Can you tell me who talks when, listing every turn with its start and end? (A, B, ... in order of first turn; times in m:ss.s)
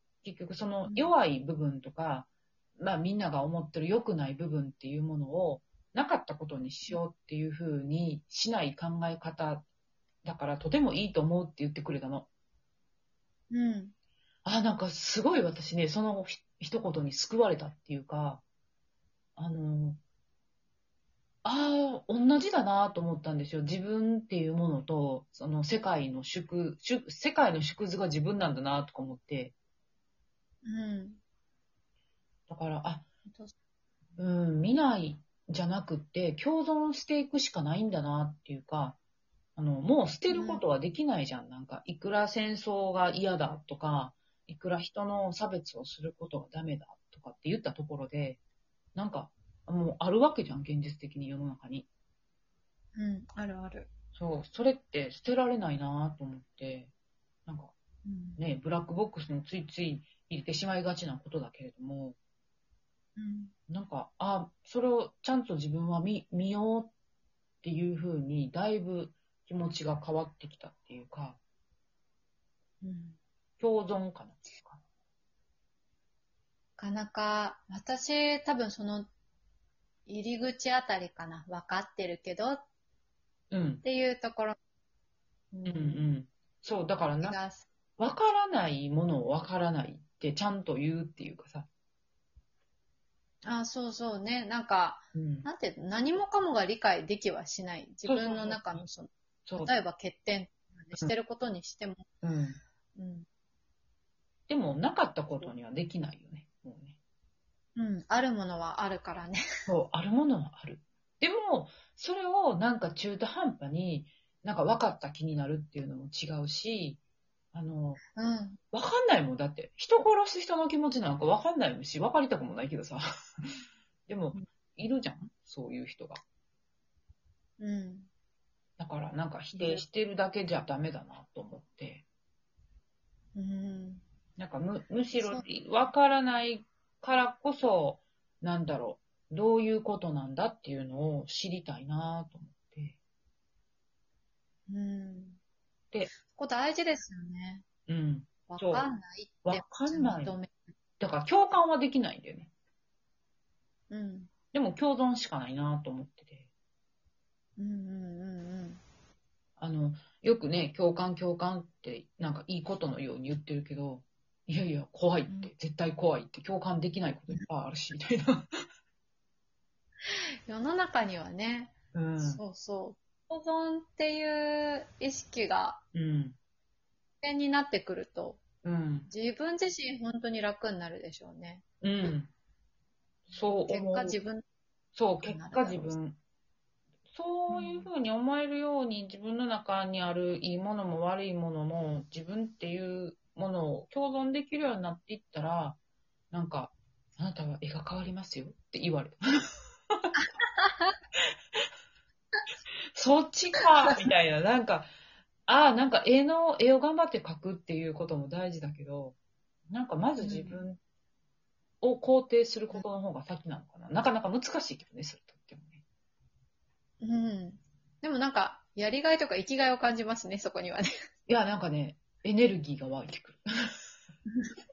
0:00.2-0:09.7 A
0:00.8-0:01.1 B
0:10.2-0:12.3 A
0:13.5-0:13.9 B
0:14.4-0:18.4 A
0:19.4-0:20.0 A
0:21.4-0:29.5 A
0:30.6-0:31.2 B
0:32.5-0:33.1 A
0:33.3-0:33.5 B
0:34.2-0:39.0 A
0:39.6-0:48.4 A
0:40.3-0:40.6 B
0:49.0-0:51.9 A
0:53.0-0:53.9 B
0:54.2-0:56.9 A
0:57.5-0:57.7 A
0:58.0-0:58.4 B
0:58.4-1:02.2 A
1:03.2-1:03.5 B
1:03.7-1:06.9 A
1:07.6-1:11.4 A
1:12.8-1:13.2 B
1:13.6-1:14.8 A
1:16.8-1:19.1 B
1:20.1-1:22.6 B
1:23.5-1:23.8 A
1:23.8-1:24.6 B
1:25.5-1:26.0 B
1:25.6-1:27.4 A
1:27.2-1:27.7 B
1:28.0-1:31.7 A
1:33.4-1:42.1 B
1:35.2-1:35.5 A
1:38.0-1:38.8 A
1:39.5-1:39.7 A
1:42.2-1:42.6 A
1:43.0-1:43.3 B
1:44.5-1:47.0 A
1:47.8-1:49.4 B
1:49.7-1:57.0 A
1:57.5-1:58.0 A
1:58.1-1:58.6 B
1:58.7-2:03.4 A
2:04.1-2:06.2 A
2:07.6-2:08.1 B
2:08.8-2:12.0 A
2:09.5-2:09.8 B
2:13.4-2:14.0 B
2:14.4-2:23.0 A
2:15.1-2:15.4 B
2:24.7-2:25.4 B
2:26.1-2:27.6 B
2:27.9-2:28.9 A
2:28.5-2:30.8 B
2:29.4-2:30.4 A
2:31.0-2:32.5 A
2:33.9-2:34.3 B
2:34.5-2:36.5 A
2:37.6-2:38.8 B
2:39.6-2:48.5 A
2:50.1-2:55.8 B
2:51.9-2:52.4 A
2:55.9-2:56.4 A
2:57.2-2:58.4 B
2:58.6-2:59.1 A
2:59.1-3:01.6 B
3:01.8-3:02.3 A
3:03.3-3:04.2 A
3:03.7-3:04.4 B
3:05.0-3:06.2 A
3:05.2-3:06.0 B
3:07.1-3:15.8 A
3:07.5-3:07.9 B
3:16.3-3:19.2 A
3:20.2-3:20.9 B
3:23.0-3:24.9 A
3:25.5-3:29.2 A
3:29.7-3:30.8 A
3:30.2-3:30.6 B
3:31.8-3:35.8 A
3:37.0-3:40.9 B
3:41.3-3:43.4 A